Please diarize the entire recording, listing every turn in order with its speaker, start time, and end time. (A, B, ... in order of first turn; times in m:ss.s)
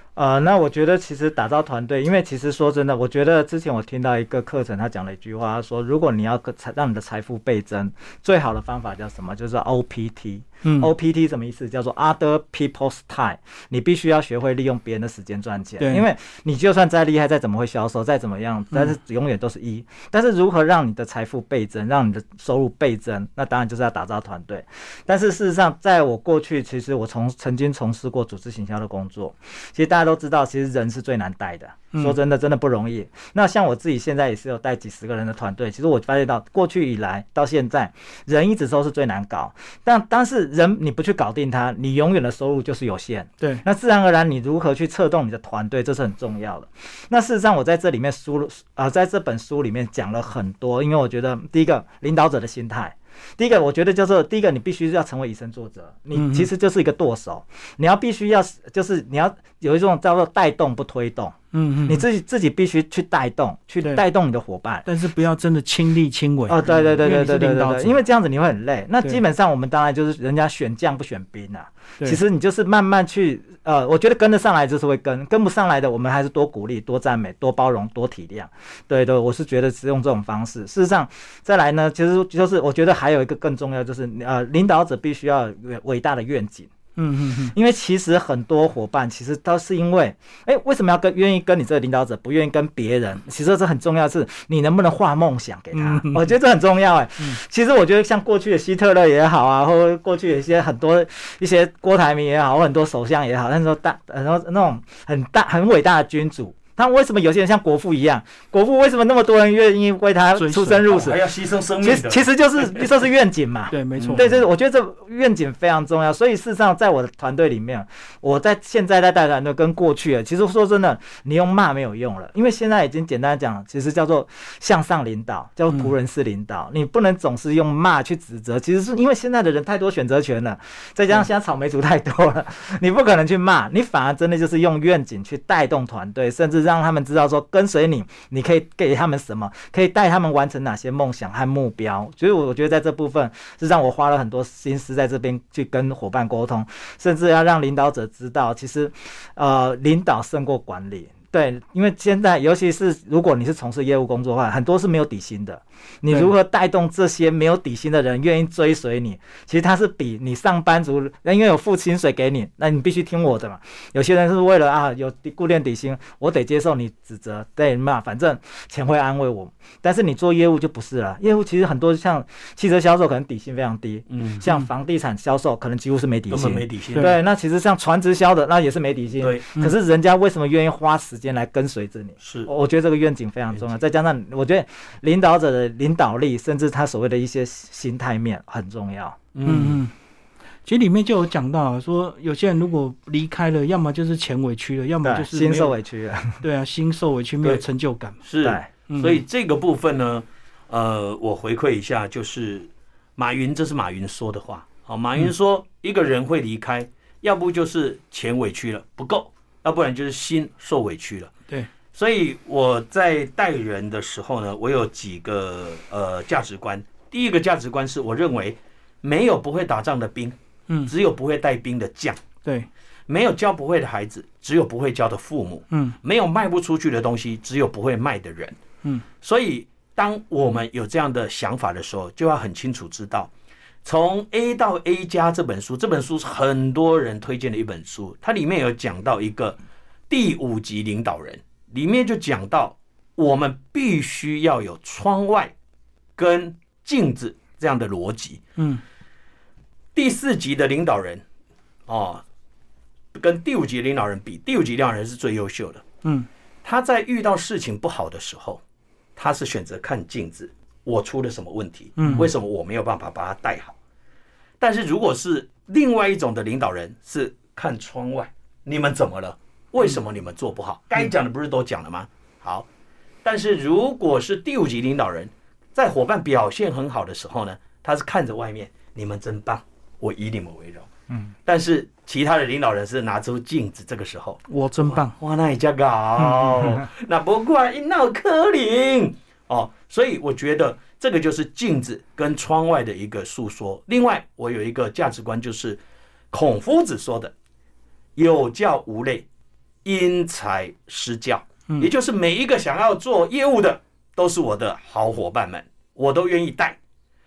0:00.2-1:04.9 A
0:10.6-0:10.9 B
0:15.8-0:16.0 B
0:43.4-0:43.6 B
0:56.2-0:56.5 B
1:01.5-1:02.0 B
1:04.9-1:08.0 B
1:06.5-1:26.7 A
1:27.0-1:27.6 B
1:27.5-3:09.2 A
1:35.7-1:36.4 B
1:50.4-1:50.9 B
1:50.9-1:52.9 C
1:53.7-1:54.3 B
1:54.0-1:54.4 C
2:54.1-2:54.4 C
2:56.3-2:57.1 C
2:59.2-2:59.5 C
3:02.2-3:02.5 C
3:09.3-3:09.8 C
3:09.4-3:09.9 B
3:10.6-3:15.7 B
3:15.0-3:16.4 A
3:16.4-3:18.2 B
3:18.2-3:31.3 C
3:18.4-3:18.7 A
3:18.9-3:19.2 B
3:31.9-3:42.2 C
3:42.4-3:42.7 B
3:43.1-3:48.6 C
3:45.7-3:46.0 B
3:49.2-3:53.3 C
3:53.8-3:59.6 C
4:00.1-4:05.5 C
4:06.2-4:08.4 C
4:08.6-4:08.8 B
4:09.9-4:11.2 C
4:11.9-4:12.2 C
4:13.1-4:15.8 C
4:16.6-4:18.6 C
4:19.2-4:23.8 C
4:22.0-4:22.3 B
4:24.6-4:32.7 C
4:33.2-4:40.9 C
4:41.5-4:55.8 C
4:44.5-4:45.2 B
4:46.2-4:46.6 B
4:56.3-4:57.3 C
4:58.2-4:59.2 C
4:59.8-5:06.8 C